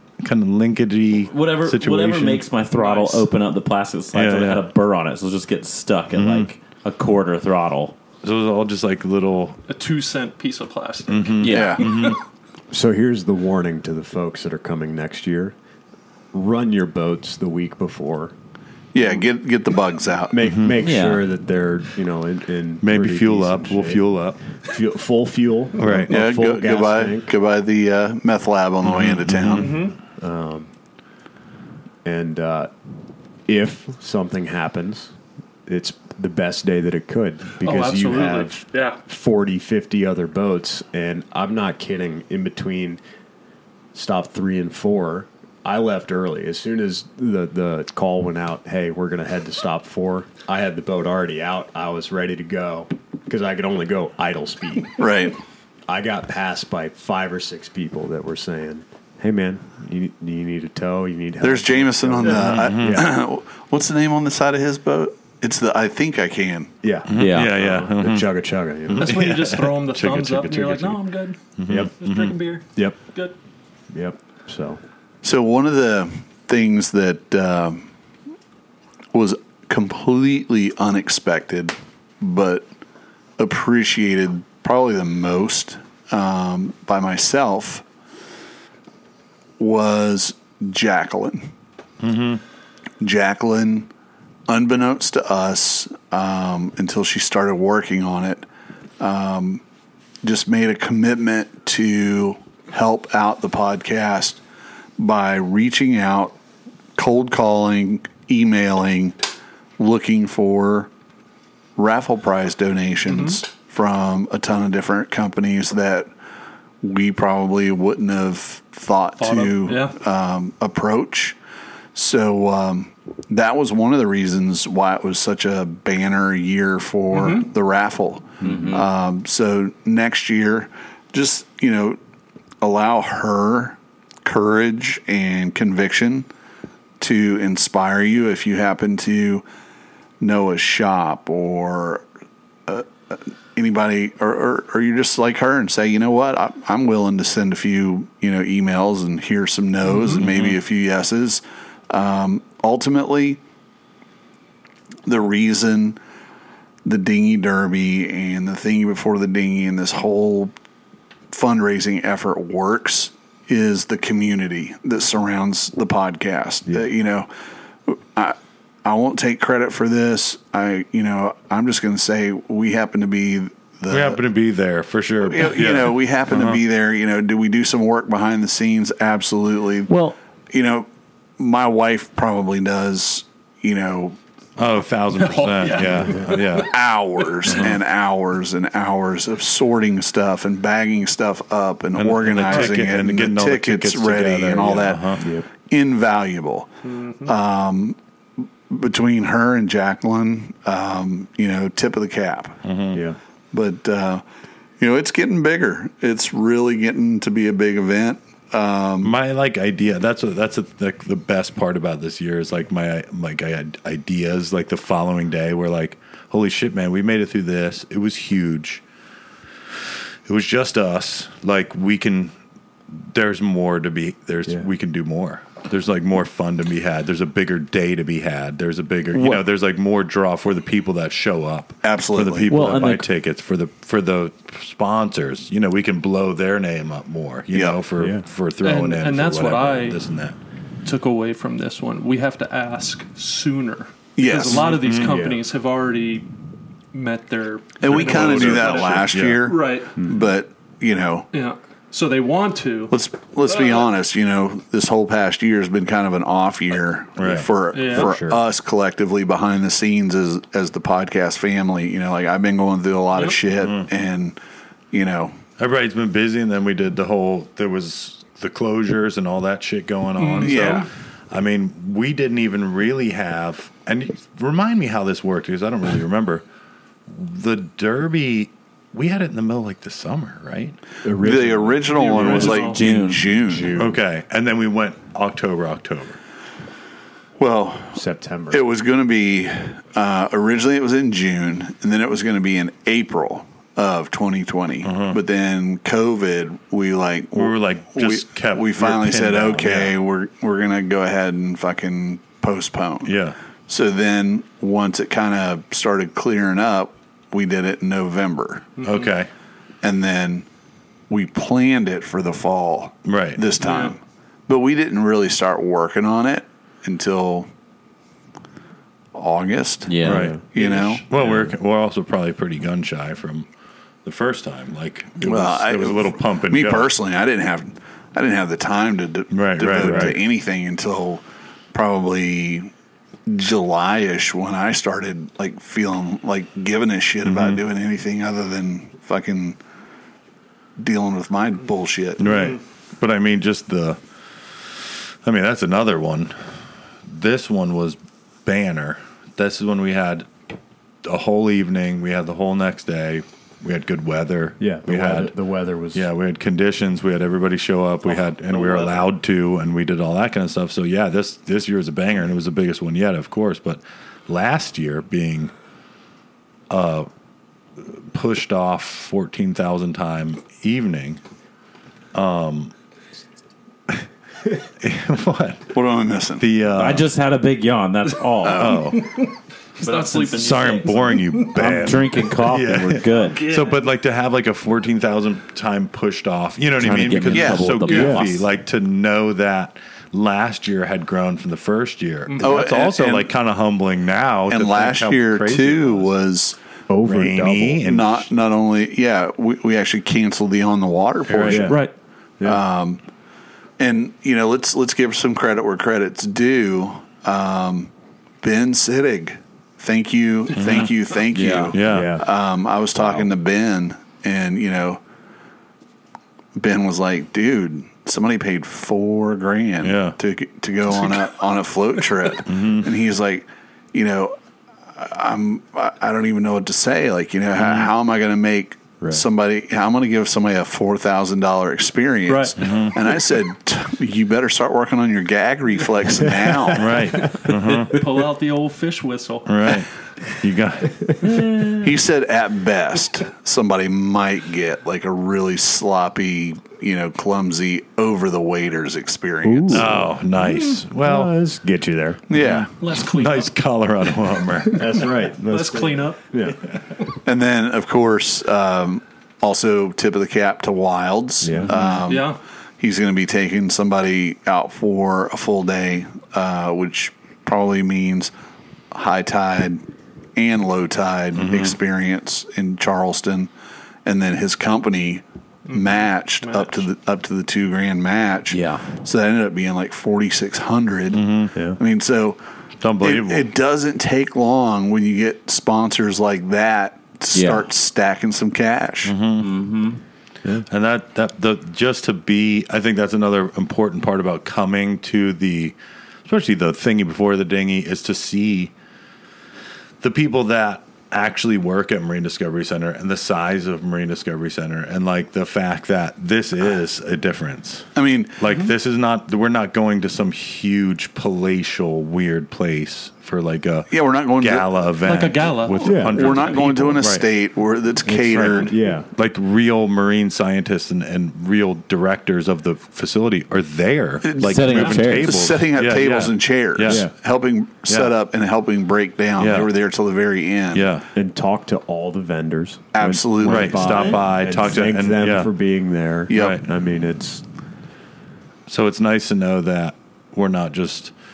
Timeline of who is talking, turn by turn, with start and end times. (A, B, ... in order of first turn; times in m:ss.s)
0:00.2-0:02.5 A
0:01.3-0:08.0 B
0:02.7-0:03.2 C
0:04.1-0:04.7 A
0:06.1-0:06.5 A
0:08.2-0:09.6 A
0:09.7-0:12.2 C
0:11.1-0:12.2 A
0:11.4-0:11.9 B
0:11.5-0:11.8 D
0:12.7-0:15.6 E
0:16.3-0:18.3 E
0:18.9-0:20.5 D
0:20.3-0:27.3 E
0:20.4-0:20.8 A
0:20.8-0:21.3 B
0:22.8-0:24.4 A
0:25.8-0:26.1 A
0:26.1-0:29.8 D
0:28.8-0:29.9 A
0:29.6-0:30.0 C
0:30.2-0:30.7 E
0:32.0-0:32.7 E
0:33.5-0:35.1 E
0:35.7-0:43.0 E
0:37.6-0:39.0 C
0:43.9-0:55.0 E
0:55.0-0:55.4 D
0:55.9-1:03.2 E
1:01.4-1:06.7 D
1:02.4-1:03.1 A
1:06.8-1:09.2 E
1:07.1-1:08.3 A
1:07.2-1:07.5 B
1:08.9-1:11.0 A
1:09.0-1:13.3 C
1:11.6-1:12.4 A
1:12.8-1:13.0 E
1:13.9-1:14.8 E
1:15.2-1:17.9 D
1:19.1-1:22.7 D
1:23.4-1:27.8 D
1:29.6-1:31.5 D
1:32.0-1:32.4 A
1:33.0-1:33.9 D
1:34.5-1:38.4 D
1:39.0-1:39.6 D
1:40.2-1:44.4 D
1:45.0-1:46.4 D
1:47.0-1:49.2 D
1:49.8-1:50.9 D
1:51.8-1:56.1 D
1:53.1-1:53.4 C
1:56.8-2:01.4 D
1:59.2-2:00.0 C
2:01.9-2:12.0 D
2:07.1-2:07.5 C
2:08.4-2:08.8 E
2:08.4-2:08.9 B
2:12.6-2:16.3 D
2:17.0-2:19.4 D
2:20.2-2:22.0 D
2:22.7-2:33.4 D
2:29.8-2:30.3 C
2:30.2-2:30.6 A
2:35.1-2:36.0 D
2:36.8-2:40.5 D
2:41.3-2:47.3 D
2:47.9-2:54.2 D
2:53.9-2:56.6 A
2:55.2-2:59.9 D
2:59.9-3:00.2 B
3:00.5-3:04.2 D
3:04.6-3:06.7 A
3:05.1-3:06.6 C
3:06.6-3:16.7 D
3:07.5-3:07.8 A
3:12.0-3:15.2 A
3:12.5-3:12.8 C
3:15.2-3:15.5 E
3:16.8-3:17.3 C
3:17.2-3:18.0 D
3:18.7-3:22.6 D
3:22.6-3:23.0 A
3:23.5-3:24.2 D
3:24.8-3:29.1 D
3:29.0-3:38.8 A
3:40.3-3:42.3 A
3:42.9-4:00.4 A
3:51.8-3:52.5 D
3:52.5-3:53.1 B
3:57.5-3:57.8 D
3:58.0-3:58.2 E
3:58.6-4:00.0 C
4:00.8-4:06.3 C
4:04.2-4:04.7 D
4:04.6-4:05.2 A
4:05.0-4:05.4 E
4:06.9-4:10.0 C
4:07.8-4:11.3 D
4:07.9-4:09.5 A
4:11.3-4:12.9 C
4:12.9-4:24.4 D
4:13.5-4:13.8 C
4:17.2-4:17.5 A
4:17.7-4:18.2 C
4:17.9-4:18.4 E
4:23.6-4:23.9 A
4:24.9-4:25.4 D
4:25.6-4:36.4 A
4:30.2-4:30.9 C
4:30.4-4:30.8 D
4:37.1-4:40.8 A
4:41.0-4:42.4 E
4:41.2-4:43.9 D
4:41.9-4:42.8 C
4:42.4-4:43.6 B
4:43.4-4:44.0 E
4:43.8-4:46.2 A
4:47.4-5:03.2 D
4:47.9-4:48.6 E
4:54.8-4:55.2 A
4:57.4-5:00.0 A
5:03.0-5:03.4 A
5:03.7-5:08.7 D
5:08.8-5:09.1 C
5:08.8-5:09.3 A
5:09.8-5:10.5 D
5:11.1-5:17.5 D
5:13.1-5:13.4 A
5:13.6-5:14.0 C
5:19.1-5:20.0 D
5:19.9-5:20.4 B
5:20.0-5:20.4 E
5:20.0-5:23.5 A
5:20.5-5:21.0 D
5:24.0-5:26.9 A
5:25.2-5:32.7 D
5:29.3-5:30.2 A
5:29.7-5:30.2 E
5:33.3-5:39.6 D
5:37.2-5:37.6 A
5:40.8-5:42.5 D
5:42.2-5:50.3 A
5:51.0-5:55.4 A
5:54.6-5:56.1 E
5:55.9-6:05.5 A
6:06.7-6:07.1 A
6:07.8-6:11.2 A
6:12.1-6:12.7 A
6:14.6-6:15.7 A
6:15.7-6:16.4 D
6:16.4-6:17.1 A
6:16.8-6:18.9 B
6:18.5-6:19.1 A
6:18.6-6:21.8 C
6:19.8-6:20.7 B
6:20.3-6:36.2 A
6:21.4-6:23.4 B
6:23.1-6:23.8 C
6:26.8-6:28.4 B
6:27.3-6:28.1 D
6:27.9-6:28.2 C
6:27.9-6:28.2 E
6:32.3-6:32.6 C
6:32.4-6:33.3 D
6:34.5-6:36.6 D
6:36.9-6:37.9 E
6:37.0-6:38.3 A
6:37.8-6:41.8 D
6:41.3-6:41.7 A
6:41.5-6:41.9 E
6:41.7-6:41.9 C
6:42.4-6:43.0 D
6:43.8-6:47.9 D
6:48.4-6:55.0 D
6:50.6-6:50.9 A
6:51.3-6:51.8 B
6:51.7-6:52.2 A
6:51.9-6:52.3 E
6:56.6-7:04.4 D
6:59.8-7:00.2 A
7:02.5-7:02.9 A
7:05.0-7:17.1 D
7:12.3-7:12.6 C
7:12.6-7:13.0 A
7:16.7-7:18.0 A
7:17.8-7:19.8 C
7:19.5-7:21.1 A
7:21.8-7:30.0 D
7:29.4-7:32.2 E
7:29.7-7:31.4 A
7:32.3-7:32.7 D
7:32.3-7:35.1 A
7:32.8-7:33.5 C
7:34.7-7:36.2 C
7:34.7-7:36.6 E
7:37.2-7:48.3 D
7:41.4-7:41.8 E
7:42.0-7:42.4 C
7:48.9-7:49.8 D
7:50.4-7:53.5 D
7:51.4-7:51.8 A
7:54.0-8:01.2 D
7:55.7-7:56.8 C
7:58.5-7:58.9 B
8:01.1-8:01.5 A
8:01.8-8:02.4 D
8:02.8-8:03.5 A
8:03.0-8:09.2 D
8:07.3-8:07.7 B
8:09.0-8:09.5 A
8:09.4-8:10.0 B
8:10.7-8:18.7 A
8:20.0-8:37.3 A
8:28.0-8:28.4 D
8:33.9-8:34.9 D
8:35.0-8:37.0 C
8:35.8-8:36.4 E
8:36.1-8:38.7 D
8:38.0-8:39.1 E
8:38.3-8:47.1 A
8:44.2-8:50.9 D
8:44.4-8:45.4 B
8:46.9-8:47.1 E
8:47.9-8:48.1 A
8:49.4-8:49.7 A
8:50.7-8:51.0 A
8:51.1-8:57.4 E
8:52.9-8:54.2 D
8:53.4-8:55.5 A
8:56.3-8:56.6 D
8:56.3-8:56.7 A
8:58.7-9:01.1 A